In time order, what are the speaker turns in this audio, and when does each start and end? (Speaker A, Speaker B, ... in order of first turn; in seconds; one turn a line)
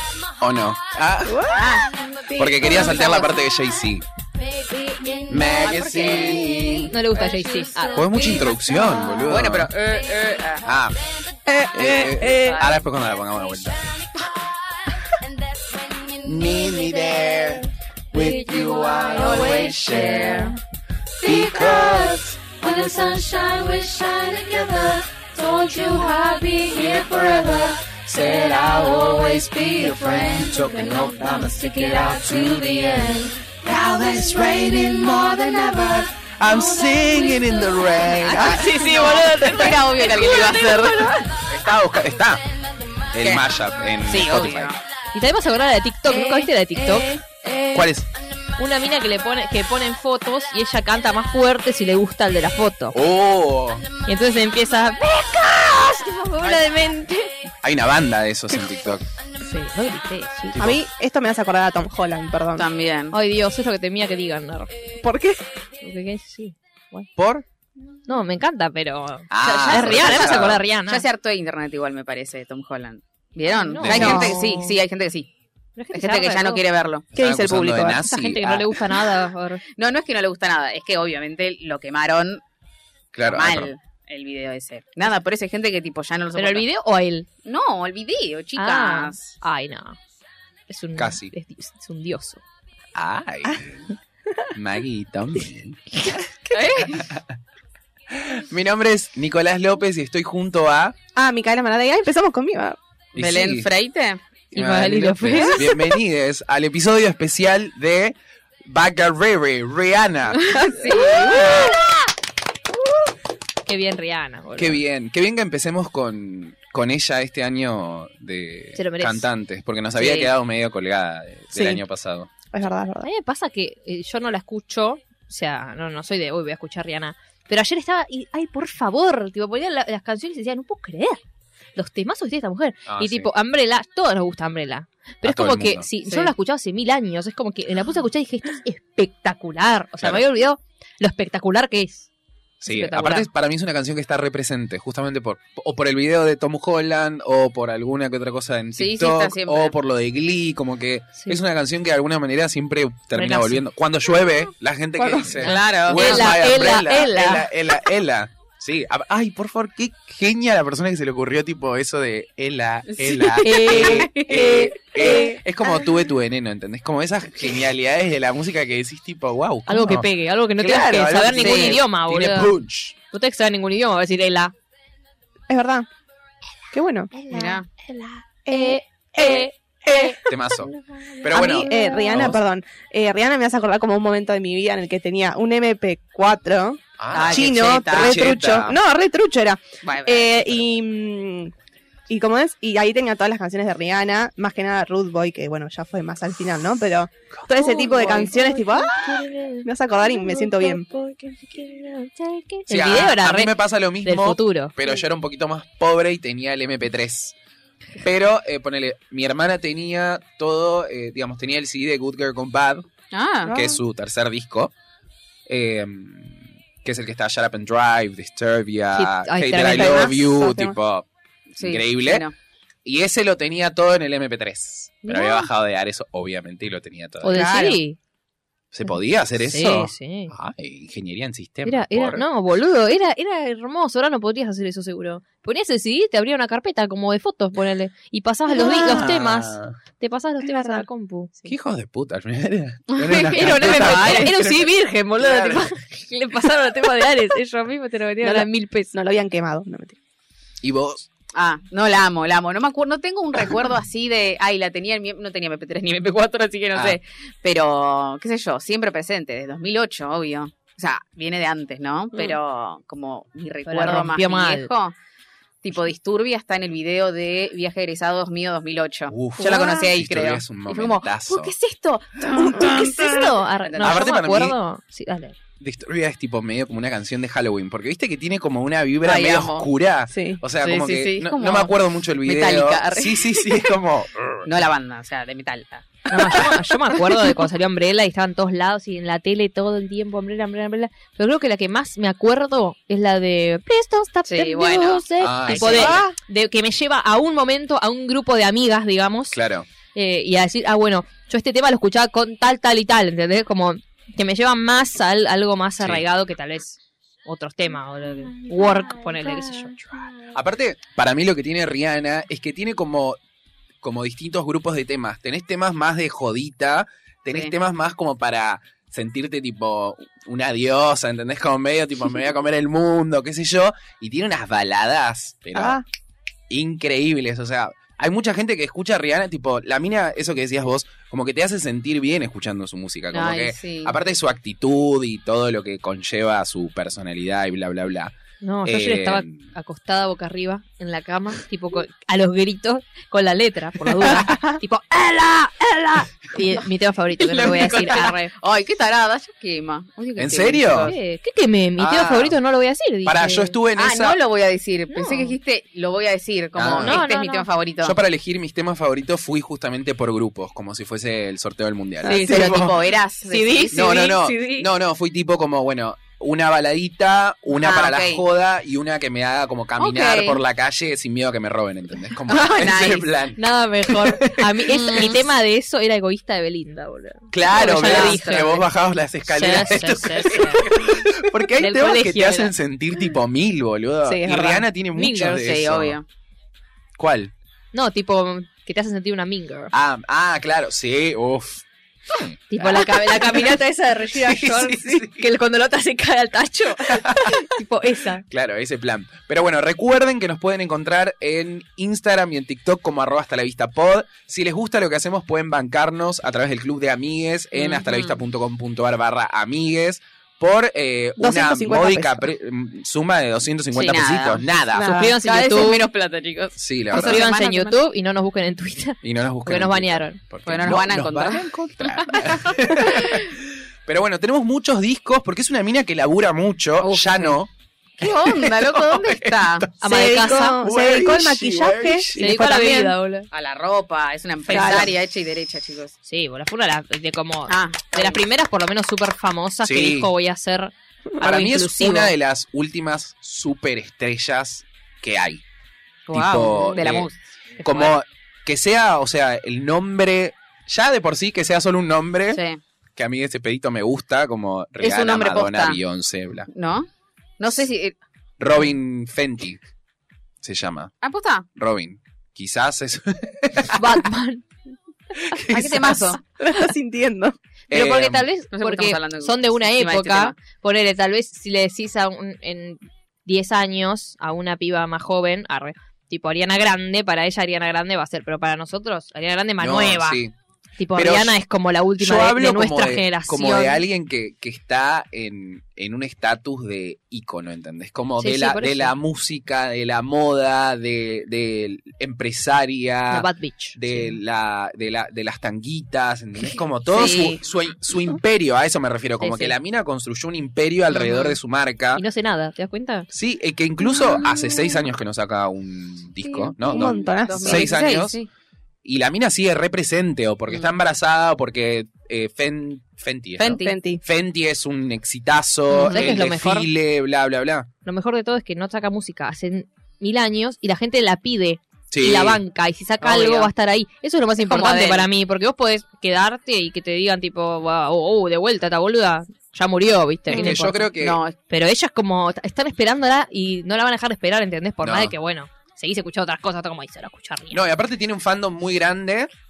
Speaker A: 0.4-1.5
Speaker B: 1.3-1.9
Speaker C: 1.5-1.9
Speaker A: 2.4-4.0
Speaker B: 2.4-2.7
Speaker C: 2.6-3.4
Speaker D: 4.4-9.2
Speaker A: 5.3-6.9
Speaker C: 5.6-6.6
Speaker E: 6.9-8.4
Speaker A: 7.9-9.7
Speaker C: 9.2-10.7
Speaker A: 10.7-11.0
Speaker B: 11.5-12.7
Speaker A: 11.7-13.9
Speaker C: 12.2-12.8
Speaker A: 16.2-20.5
Speaker D: 16.5-17.5
Speaker D: 18.1-20.6
Speaker C: 19.3-20.6
Speaker D: 21.2-41.2
Speaker A: 21.2-22.4
Speaker A: 28.0-33.0
Speaker A: 33.6-38.9
Speaker E: 38.2-41.2
Speaker C: 38.8-41.2
Speaker A: 41.5-42.4
Speaker A: 43.1-44.8
Speaker C: 44.0-44.8
Speaker E: 45.1-47.2
Speaker D: 46.1-47.9
Speaker A: 47.7-48.1
Speaker E: 48.6-53.0
Speaker A: 52.9-53.9
Speaker E: 54.1-57.3
Speaker A: 57.6-59.0
Speaker E: 59.4-60.7
Speaker B: 60.5-62.7
Speaker C: 62.6-63.1
Speaker E: 63.1-64.7
Speaker B: 65.0-65.4
Speaker E: 65.8-67.1
Speaker A: 67.2-67.5
Speaker E: 68.1-71.1
Speaker A: 69.3-70.7
Speaker C: 69.9-75.3
Speaker E: 73.5-74.7
Speaker A: 73.8-74.3
Speaker B: 73.9-74.5
Speaker E: 75.8-76.6
Speaker C: 75.9-77.1
Speaker A: 77.1-78.9
Speaker B: 77.2-77.7
Speaker E: 77.3-79.6
Speaker C: 79.8-82.4
Speaker A: 83.1-83.7
Speaker C: 83.2-86.7
Speaker E: 86.3-87.3
Speaker C: 87.4-89.4
Speaker E: 88.6-90.0
Speaker E: 90.7-92.4
Speaker A: 91.0-91.3
Speaker A: 93.0-93.9
Speaker A: 94.5-97.3
Speaker C: 96.5-97.1
Speaker A: 98.1-101.0
Speaker B: 101.2-102.8
Speaker A: 103.1-103.7
Speaker C: 103.2-104.2
Speaker A: 104.5-108.2
Speaker E: 104.5-105.9
Speaker A: 108.7-110.5
Speaker C: 110.4-111.6
Speaker E: 111.2-111.7
Speaker D: 111.2-111.7
Speaker E: 113.7-114.8
Speaker A: 114.6-122.3
Speaker E: 118.8-119.3
Speaker C: 120.0-120.3
Speaker E: 121.5-121.8
Speaker B: 122.5-123.1
Speaker E: 123.0-131.2
Speaker E: 131.8-142.1
Speaker A: 132.9-133.3
Speaker A: 135.2-135.9
Speaker C: 136.1-136.3
Speaker A: 140.0-140.2
Speaker A: 142.6-173.0
Speaker E: 142.7-143.3
Speaker C: 148.8-149.7
Speaker E: 153.2-153.6
Speaker B: 155.0-155.4
Speaker C: 155.4-156.3
Speaker E: 155.4-157.5
Speaker C: 162.9-164.5
Speaker E: 163.4-165.4
Speaker E: 169.7-172.6
Speaker C: 171.4-171.8
Speaker E: 173.1-174.5
Speaker B: 175.5-175.9
Speaker B: 176.7-177.2
Speaker D: 177.1-182.3
Speaker C: 177.3-177.7
Speaker B: 178.5-180.2
Speaker A: 180.3-182.4
Speaker B: 181.3-191.5
Speaker A: 187.0-188.8
Speaker C: 187.1-188.7
Speaker C: 189.8-190.5
Speaker B: 192.1-199.1
Speaker D: 197.6-199.2
Speaker E: 197.8-199.7
Speaker B: 199.6-200.9
Speaker D: 200.0-202.4
Speaker E: 202.3-204.7
Speaker A: 202.7-207.3
Speaker A: 208.0-212.9
Speaker C: 213.1-213.5
Speaker B: 213.5-213.8
Speaker A: 213.5-214.7
Speaker A: 215.5-221.1
Speaker E: 218.9-220.2
Speaker B: 219.5-220.8
Speaker C: 221.6-222.3
Speaker A: 221.6-222.3
Speaker A: 222.8-227.6
Speaker E: 225.1-225.4
Speaker E: 227.2-228.0
Speaker B: 227.3-227.8
Speaker A: 228.7-232.2
Speaker E: 229.4-230.3
Speaker E: 231.7-241.4
Speaker A: 238.6-239.8
Speaker B: 238.6-239.0
Speaker B: 240.4-240.8
Speaker A: 241.4-245.7
Speaker C: 242.9-244.3
Speaker E: 243.3-248.9
Speaker B: 248.2-250.0
Speaker A: 250.6-251.1
Speaker C: 251.3-264.9
Speaker E: 263.7-264.7
Speaker C: 265.6-274.0
Speaker A: 269.1-271.5
Speaker B: 272.4-272.8
Speaker E: 272.4-275.4
Speaker A: 273.8-274.6
Speaker A: 275.6-284.4
Speaker C: 279.0-279.7
Speaker B: 280.1-280.4
Speaker C: 280.6-283.7
Speaker C: 284.4-286.2
Speaker E: 286.1-299.4
Speaker B: 286.2-286.4
Speaker C: 294.3-295.9
Speaker A: 295.2-296.1
Speaker B: 295.8-296.1
Speaker A: 299.3-299.7
Speaker E: 299.9-309.8
Speaker A: 305.8-306.1
Speaker D: 308.6-308.9
Speaker A: 310.3-313.2
Speaker A: 313.8-325.8
Speaker B: 325.6-325.9
Speaker A: 326.5-339.4
Speaker C: 333.1-333.9
Speaker E: 338.4-348.3
Speaker A: 347.3-348.1
Speaker C: 347.3-351.0
Speaker A: 350.2-350.9
Speaker E: 350.8-353.6
Speaker A: 351.8-352.4
Speaker A: 353.1-354.2
Speaker C: 353.8-358.0
Speaker E: 354.9-355.4
Speaker A: 356.6-357.1
Speaker E: 356.8-357.5
Speaker A: 357.8-362.8
Speaker C: 362.0-364.7
Speaker E: 363.3-363.9
Speaker A: 363.7-374.9
Speaker C: 367.5-368.2
Speaker C: 369.8-370.4
Speaker C: 372.3-373.1
Speaker E: 373.4-378.6
Speaker C: 374.7-375.2
Speaker A: 377.3-386.0
Speaker C: 377.5-378.6
Speaker E: 379.3-380.8
Speaker E: 381.5-382.5
Speaker B: 384.0-384.6
Speaker E: 384.9-385.4
Speaker C: 385.3-386.0
Speaker A: 387.0-387.3
Speaker E: 387.7-389.7
Speaker A: 389.7-393.6
Speaker E: 392.5-398.2
Speaker A: 394.1-395.3
Speaker A: 396.9-397.4
Speaker A: 398.3-415.0
Speaker B: 411.2-412.3
Speaker C: 413.7-414.5
Speaker B: 414.8-415.7
Speaker E: 414.8-415.9
Speaker C: 415.2-417.8
Speaker A: 416.6-417.3
Speaker E: 416.9-420.2
Speaker A: 419.0-429.8
Speaker C: 420.4-423.2
Speaker C: 426.8-427.4
Speaker C: 428.0-429.7
Speaker E: 429.8-430.6
Speaker B: 429.8-433.0
Speaker A: 430.4-432.4
Speaker E: 432.2-433.3
Speaker C: 433.3-435.9
Speaker E: 434.5-434.9
Speaker B: 434.5-434.9
Speaker E: 436.1-442.1
Speaker C: 437.5-438.2
Speaker A: 439.6-440.1
Speaker A: 441.2-445.4
Speaker C: 446.1-447.2
Speaker A: 446.1-447.1
Speaker A: 447.6-452.4
Speaker E: 447.6-447.9
Speaker C: 452.3-452.6
Speaker A: 453.0-456.5
Speaker C: 454.8-455.8
Speaker C: 456.5-456.9
Speaker C: 457.4-458.0
Speaker A: 458.4-459.6
Speaker A: 460.4-460.9
Speaker C: 461.0-461.5
Speaker A: 461.6-464.0
Speaker E: 463.7-464.4
Speaker A: 465.1-466.2
Speaker C: 465.5-466.2
Speaker B: 466.4-467.4
Speaker A: 467.7-468.3
Speaker E: 467.7-480.2
Speaker C: 468.5-470.4
Speaker A: 479.6-480.3
Speaker E: 480.8-483.8
Speaker A: 480.9-481.4
Speaker A: 482.0-502.0
Speaker E: 488.2-488.9
Speaker E: 493.1-494.2
Speaker C: 496.9-497.4
Speaker E: 499.2-499.6
Speaker C: 500.9-501.4
Speaker E: 501.9-503.1
Speaker A: 503.1-508.2
Speaker C: 506.2-508.3
Speaker B: 506.7-507.7
Speaker A: 508.8-517.7
Speaker C: 513.4-513.8
Speaker B: 513.6-514.0
Speaker C: 515.7-516.2
Speaker E: 515.8-516.7
Speaker E: 517.9-530.9
Speaker A: 521.9-522.4
Speaker C: 523.0-523.5
Speaker C: 524.4-525.1
Speaker A: 530.3-531.2
Speaker C: 530.3-531.4
Speaker E: 531.5-537.6
Speaker A: 534.8-535.2
Speaker A: 537.5-539.3